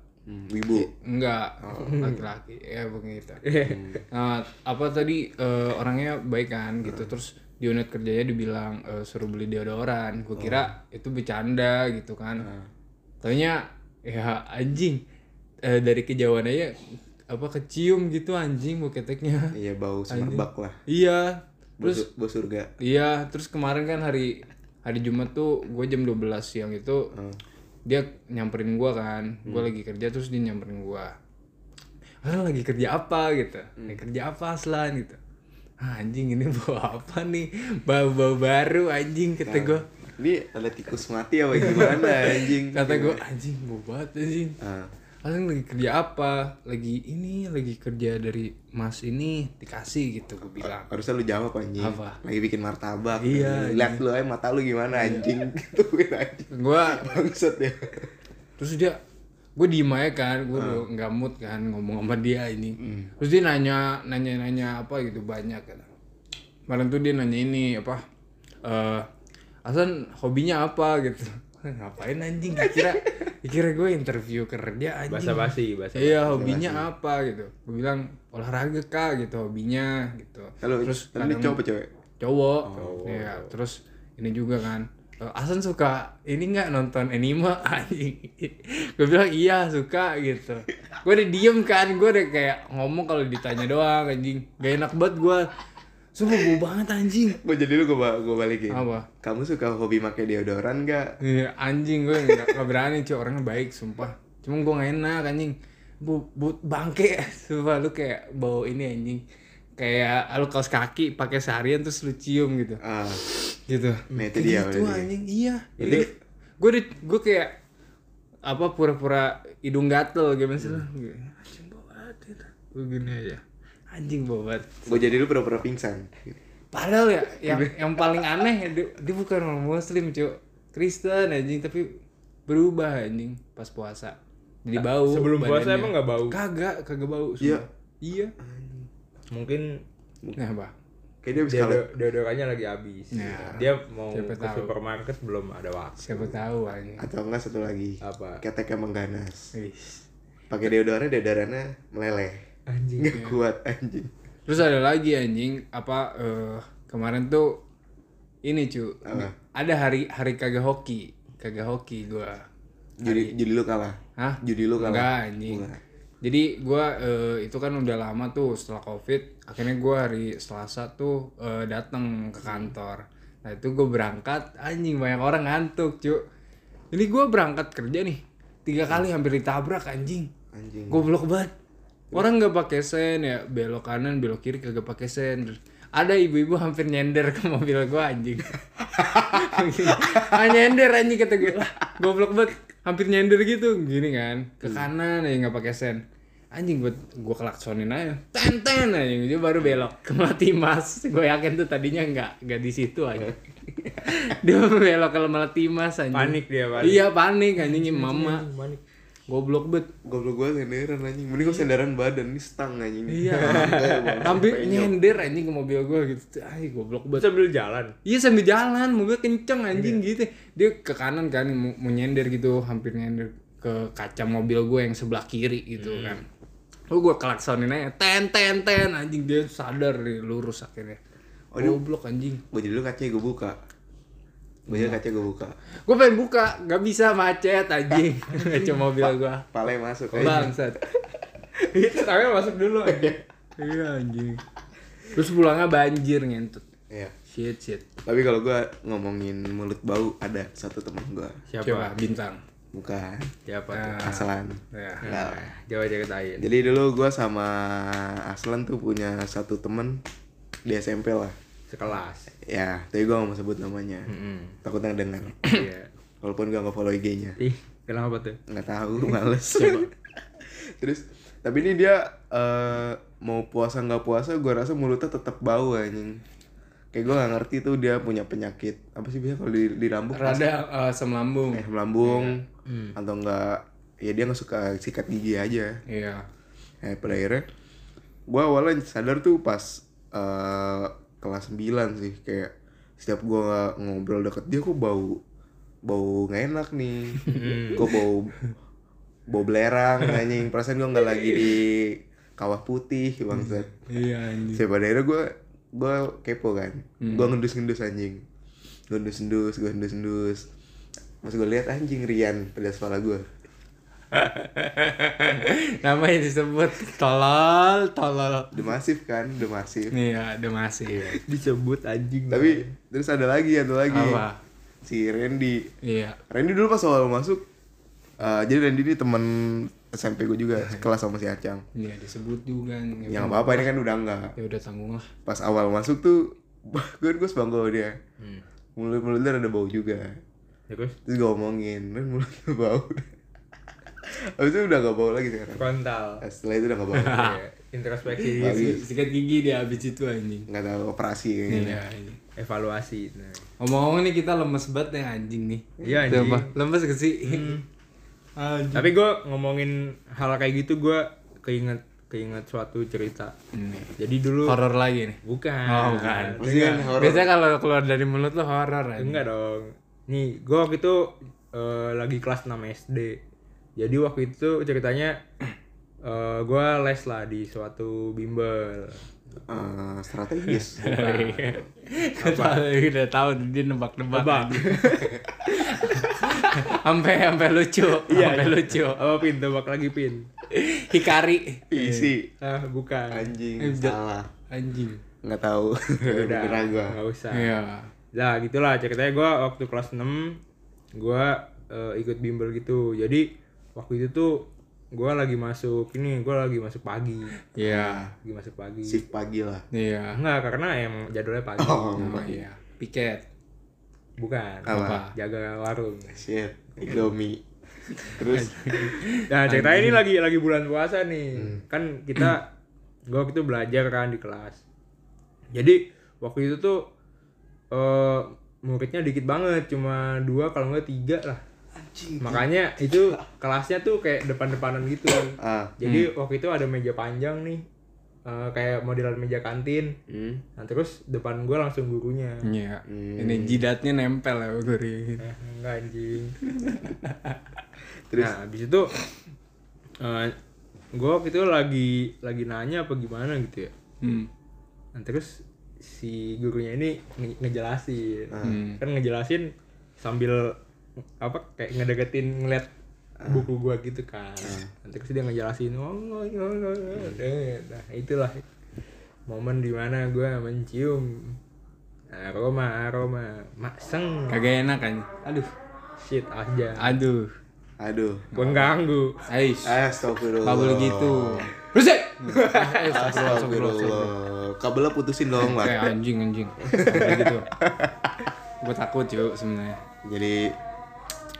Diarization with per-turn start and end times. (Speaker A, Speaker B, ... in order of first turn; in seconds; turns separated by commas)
Speaker A: 0.3-0.9, Speaker B: 0.7-3.4, Speaker A: 1.6-1.9, Speaker C: 1.7-2.2, Speaker C: 3.4-4.0, Speaker A: 3.6-4.0, Speaker B: 4.1-12.5, Speaker A: 10.3-10.7, Speaker A: 12.4-12.7, Speaker B: 13.2-15.0, Speaker B: 15.6-16.7, Speaker B: 17.3-19.6, Speaker A: 19.5-20.8, Speaker B: 20.1-22.1, Speaker A: 21.8-22.7, Speaker B: 22.8-27.1, Speaker A: 27.1-27.4, Speaker B: 27.9-31.1, Speaker B: 32.2-35.2, Speaker B: 35.8-39.8, Speaker A: 39.4-43.2, Speaker B: 41.6-44.6, Speaker A: 44.6-44.9, Speaker B: 45.2-50.9, Speaker A: 50.6-58.1, Speaker B: 51.8-52.2, Speaker B: 53.2-54.0, Speaker B: 54.9-55.3, Speaker B: 56.5-57.1, Speaker B: 58.6-59.0, Speaker B: 59.5-65.8, Speaker A: 60.5-60.8, Speaker A: 62.8-63.1, Speaker B: 66.7-68.0, Speaker B: 68.6-69.0, Speaker B: 69.6-81.6, Speaker C: 75.1-76.3, Speaker A: 76.2-76.9, Speaker A: 80.6-81.9, Speaker B: 82.2-95.5, Speaker A: 82.7-83.0, Speaker C: 82.7-83.5, Speaker B: 96.1-97.4, Speaker A: 97.3-101.2, Speaker B: 98.7-99.1, Speaker B: 101.2-109.2, Speaker A: 102.2-102.6, Speaker B: 109.8-117.5, Speaker A: 112.8-113.2, Speaker A: 114.1-115.1, Speaker C: 115.8-116.1, Speaker A: 115.8-116.1, Speaker B: 118.5-124.8, Speaker A: 124.8-126.3, Speaker B: 126.7-138.3, Speaker A: 127.5-127.7, Speaker C: 134.7-136.4, Speaker A: 137.4-137.6, Speaker A: 138.4-138.9, Speaker C: 139.3-139.8, Speaker B: 140.3-140.7, Speaker A: 141.2-141.9, Speaker C: 141.4-146.3, Speaker B: 143.1-144.7, Speaker A: 143.2-143.5, Speaker B: 146.0-147.1, Speaker A: 147.0-149.5, Speaker C: 148.0-148.4, Speaker B: 149.5-150.0, Speaker A: 150.5-152.4, Speaker C: 152.7-153.1, Speaker A: 153.0-154.1, Speaker B: 153.1-153.4, Speaker B: 154.5-157.6, Speaker B: 158.4-162.4, Speaker A: 159.0-159.3, Speaker A: 163.0-165.8, Speaker B: 163.0-163.3, Speaker B: 164.2-165.7, Speaker B: 166.2-176.2, Speaker A: 172.4-172.7, Speaker B: 176.9-180.3, Speaker A: 180.5-181.1, Speaker B: 180.9-181.5, Speaker B: 182.1-203.4, Speaker A: 190.0-190.4, Speaker B: 204.0-208.4, Speaker C: 206.1-208.8, Speaker B: 209.3-209.9, Speaker A: 210.0-214.9, Speaker B: 213.1-217.3, Speaker C: 213.4-214.3, Speaker C: 217.1-217.9, Speaker B: 218.0-226.2, Speaker C: 219.7-220.0, Speaker C: 225.8-226.2, Speaker B: 226.9-231.0, Speaker A: 231.5-231.8, Speaker B: 231.5-232.4, Speaker A: 232.5-233.6, Speaker A: 234.7-235.5, Speaker B: 234.7-235.0, Speaker B: 235.8-239.4, Speaker A: 239.0-240.5, Speaker B: 240.1-240.8, Speaker C: 241.6-243.2, Speaker A: 242.8-243.2, Speaker B: 243.6-244.4, Speaker B: 245.1-246.6, Speaker B: 247.3-247.8, Speaker A: 248.0-251.4, Speaker C: 251.5-251.9, Speaker B: 251.6-252.4, Speaker A: 252.7-253.3, Speaker C: 253.4-254.0, Speaker B: 253.7-255.0, Speaker A: 254.0-255.5, Speaker C: 255.0-256.5, Speaker A: 256.4-260.0, Speaker A: 260.6-261.3, Speaker C: 261.7-262.3, Speaker A: 262.4-264.1, Speaker C: 264.1-264.6, Speaker A: 264.6-265.6, Speaker C: 265.5-265.9, Speaker A: 266.2-267.4, Speaker C: 267.4-268.4, Speaker A: 268.5-276.2, Speaker C: 269.5-269.9, Speaker A: 276.9-280.5, Speaker B: 280.1-281.6, Speaker A: 281.5-282.4, Speaker C: 282.0-282.9, Speaker A: 282.9-285.8, Speaker B: 285.9-286.2, Speaker A: 286.8-287.4, Speaker A: 288.3-295.2, Speaker A: 295.8-298.4, Speaker B: 297.2-297.6, Speaker C: 297.4-297.9, Speaker A: 299.3-303.7, Speaker B: 303.3-304.6, Speaker A: 304.5-308.2, Speaker B: 307.0-307.3, Speaker A: 308.9-310.5, Speaker A: 311.2-313.3, Speaker B: 314.1-318.7, Speaker A: 318.5-319.9, Speaker B: 319.9-321.1, Speaker C: 320.9-322.7, Speaker A: 322.3-324.2, Speaker B: 323.9-324.4, Speaker A: 324.8-325.7, Speaker B: 325.8-326.2, Speaker A: 326.3-327.4, Speaker A: 328.2-331.6, Speaker B: 331.7-333.7, Speaker A: 333.1-334.3, Speaker B: 334.4-335.1, Speaker A: 335.2-337.9, Speaker A: 338.8-340.2, Speaker C: 340.7-340.9, Speaker A: 341.1-343.1, Speaker A: 344.0-345.7, Speaker C: 345.5-346.2, Speaker A: 346.2-347.3, Speaker B: 346.9-347.4, Speaker C: 346.9-348.7, Speaker B: 348.3-350.5, Speaker A: 348.3-348.9, Speaker A: 350.5-351.8, Speaker B: 351.5-352.2, Speaker C: 352.4-353.4, Speaker B: 353.6-357.6, Speaker C: 355.8-356.5, Speaker C: 357.2-357.6, Speaker B: 358.4-358.9, Speaker C: 358.7-363.3, Speaker B: 363.5-363.9, Speaker C: 364.0-364.5, Speaker B: 364.4-366.4, Speaker C: 365.2-367.0, Speaker A: 366.4-367.3, Speaker B: 366.9-369.2, Speaker C: 369.0-373.2, Speaker C: 373.8-375.2, Speaker C: 376.0-379.0, Speaker A: 379.4-381.2, Speaker B: 380.5-384.8, Speaker C: 380.9-381.5, Speaker C: 382.2-382.6, Speaker C: 384.1-385.2, Speaker B: 385.4-389.0, Speaker C: 388.1-390.3, Speaker B: 390.5-392.1, Speaker A: 391.7-392.3, Speaker C: 392.4-393.3, Speaker A: 393.1-394.3, Speaker B: 393.6-395.0, Speaker A: 395.2-397.0, Speaker C: 396.0-397.5, Speaker B: 397.3-397.9, Speaker C: 398.1-400.4, Speaker C: 400.9-407.3, Speaker B: 407.5-408.1, Speaker A: 407.6-408.1, Speaker C: 408.2-409.0, Speaker A: 408.9-409.6, Speaker B: 409.7-410.2, Speaker C: 410.1-412.0, Speaker A: 411.6-412.4, Speaker B: 411.9-413.2, Speaker C: 414.2-416.2, Speaker A: 414.6-415.0, Speaker B: 414.6-415.1, Speaker A: 416.1-417.4, Speaker B: 418.0-420.0, Speaker A: 418.0-418.9, Speaker C: 419.3-422.5, Speaker C: 423.1-424.6, Speaker C: 425.5-426.9, Speaker C: 427.7-431.4, Speaker A: 431.7-432.5, Speaker C: 432.2-437.6, Speaker A: 435.4-435.7, Speaker B: 435.8-436.1, Speaker C: 438.2-439.9, Speaker A: 440.1-440.4, Speaker C: 440.6-442.4, Speaker B: 442.4-445.2, Speaker A: 442.9-443.7, Speaker C: 445.2-446.4, Speaker B: 446.4-447.4, Speaker C: 448.1-448.9, Speaker C: 450.0-450.4, Speaker C: 450.9-453.7, Speaker B: 454.0-454.3, Speaker C: 454.9-460.5, Speaker A: 458.3-458.6, Speaker B: 458.4-458.8, Speaker C: 461.2-462.7, Speaker C: 463.2-468.4, Speaker C: 469.3-471.4, Speaker C: 472.1-474.4, Speaker B: 474.3-475.5, Speaker C: 476.0-477.0, Speaker B: 476.8-477.3, Speaker A: 477.8-478.3, Speaker B: 478.3-478.7, Speaker C: 478.3-479.2, Speaker B: 479.3-479.8, Speaker A: 479.6-481.5, Speaker B: 480.4-484.1, Speaker A: 482.3-485.9, Speaker B: 485.4-487.5, Speaker A: 486.6-488.1, Speaker B: 488.6-489.8, Speaker A: 490.0-490.6